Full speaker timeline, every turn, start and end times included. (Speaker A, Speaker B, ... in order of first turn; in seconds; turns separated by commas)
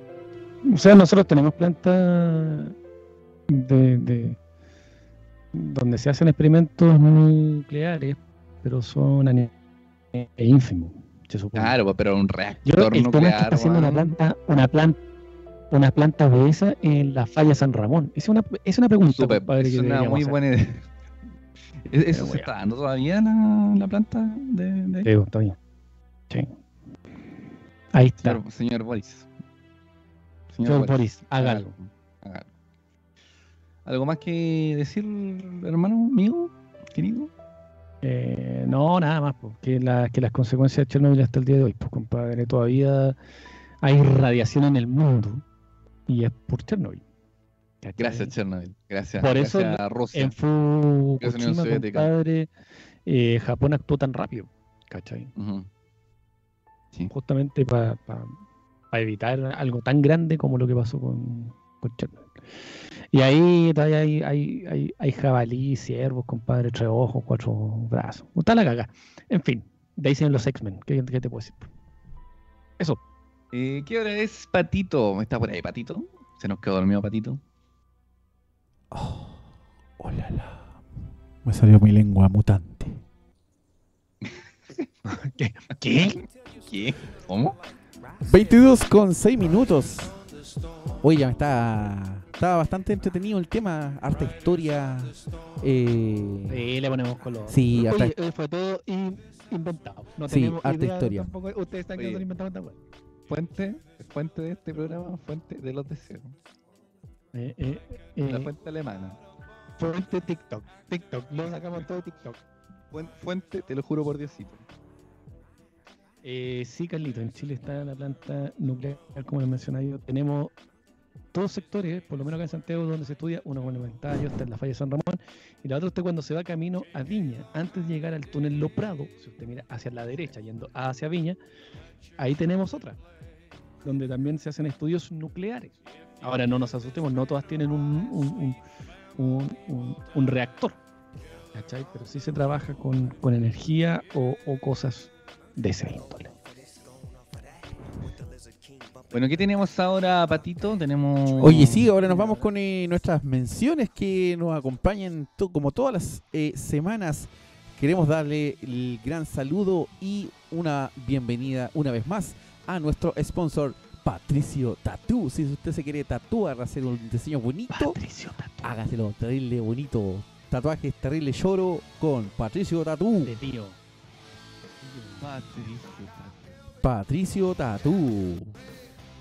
Speaker A: 0.7-2.7, Speaker A: 3.5-4.4, Speaker A: 5.5-9.5, Speaker A: 10.1-11.8, Speaker B: 11.6-14.1, Speaker A: 12.7-15.0, Speaker A: 15.7-20.4, Speaker B: 19.1-20.9, Speaker B: 21.9-25.1, Speaker A: 22.1-22.5, Speaker A: 25.1-25.6, Speaker A: 27.9-28.4, Speaker B: 28.2-29.3, Speaker B: 30.5-32.5, Speaker A: 30.6-31.7, Speaker B: 33.9-37.3, Speaker A: 38.0-43.2, Speaker A: 43.8-45.4, Speaker A: 46.1-47.0, Speaker A: 47.8-48.3, Speaker B: 48.0-50.4, Speaker A: 49.2-52.5, Speaker B: 51.2-52.1, Speaker A: 53.1-55.3, Speaker B: 55.4-55.7, Speaker A: 57.1-58.3, Speaker A: 58.9-62.3, Speaker A: 63.1-71.7, Speaker B: 73.5-77.4, Speaker C: 78.9-79.5, Speaker C: 80.0-80.8, Speaker C: 81.4-83.0, Speaker A: 85.0-86.2, Speaker B: 86.6-87.6, Speaker C: 88.2-90.1, Speaker C: 91.0-96.7, Speaker A: 96.5-102.8, Speaker C: 97.5-98.2, Speaker C: 100.3-101.3, Speaker B: 102.0-102.2, Speaker B: 103.3-106.3, Speaker A: 107.3-108.5, Speaker B: 108.3-109.2, Speaker A: 109.8-112.4, Speaker B: 112.9-114.6, Speaker A: 116.2-120.5, Speaker A: 121.3-131.4, Speaker A: 132.2-133.0, Speaker A: 133.8-138.6, Speaker A: 139.2-140.8, Speaker A: 141.5-146.3, Speaker B: 149.1-151.9, Speaker C: 151.4-168.0, Speaker A: 152.0-152.5, Speaker A: 167.7-168.8, Speaker C: 168.6-173.3, Speaker A: 173.2-173.8, Speaker A: 174.8-175.3, Speaker B: 175.2-176.5, Speaker C: 176.8-178.6